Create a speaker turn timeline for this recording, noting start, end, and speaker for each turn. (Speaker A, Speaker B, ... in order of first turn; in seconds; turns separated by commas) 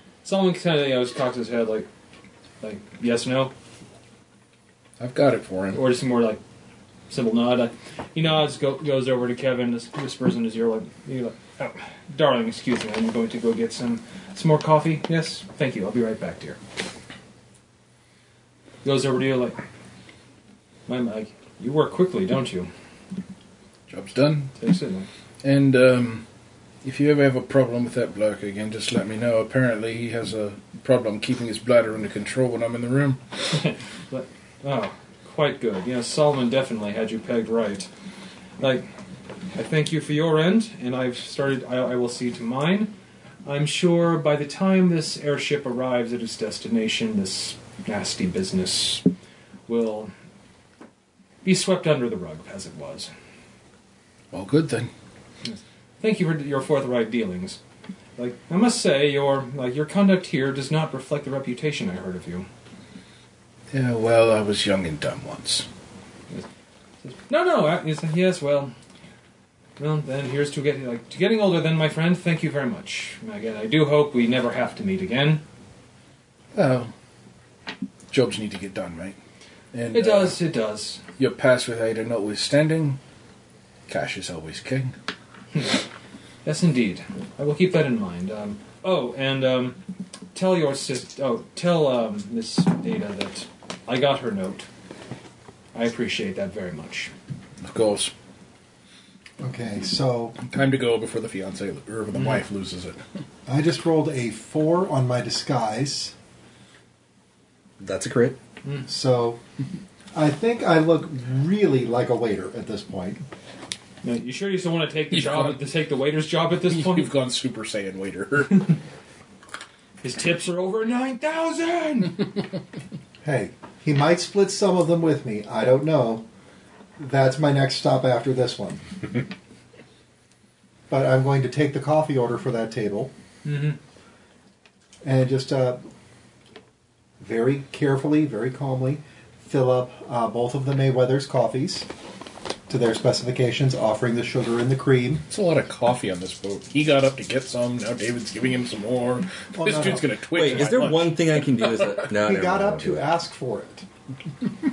Speaker A: 0.2-1.9, Speaker A: 2.6-3.5, Speaker B: 5.0-5.8, Speaker A: 5.7-6.4, Speaker A: 7.1-16.6, Speaker A: 18.8-19.6, Speaker A: 20.9-22.7, Speaker B: 23.9-24.5, Speaker A: 24.6-25.1, Speaker B: 25.4-26.2, Speaker B: 26.8-33.2, Speaker A: 33.5-37.9, Speaker A: 38.6-38.9, Speaker A: 39.5-42.9, Speaker A: 43.5-49.1, Speaker A: 49.7-50.1, Speaker A: 51.4-53.1, Speaker B: 54.3-54.9, Speaker A: 55.5-57.6, Speaker A: 58.2-62.5, Speaker B: 63.7-65.7, Speaker A: 67.0-68.7, Speaker A: 69.8-75.4, Speaker B: 76.5-76.9, Speaker B: 78.1-79.2, Speaker B: 79.7-80.4, Speaker A: 79.9-81.0, Speaker B: 81.2-83.0, Speaker B: 83.9-84.9, Speaker A: 86.5-89.8, Speaker A: 90.3-94.7, Speaker A: 95.7-97.1, Speaker B: 97.6-98.1, Speaker C: 99.4-100.4, Speaker B: 100.5-103.0, Speaker C: 103.5-106.1, Speaker D: 107.8-108.4, Speaker C: 108.9-109.4, Speaker C: 110.1-113.3, Speaker A: 114.0-117.1, Speaker B: 115.1-115.7, Speaker B: 116.7-118.7, Speaker A: 120.0-122.3, Speaker C: 123.2-126.3, Speaker C: 127.0-129.2, Speaker C: 130.9-133.1, Speaker A: 133.4-133.8, Speaker C: 135.0-135.8, Speaker C: 137.2-141.9, Speaker C: 142.7-145.2, Speaker B: 145.3-151.9, Speaker C: 149.6-150.2, Speaker D: 150.3-153.1, Speaker A: 150.5-150.9, Speaker C: 152.1-153.9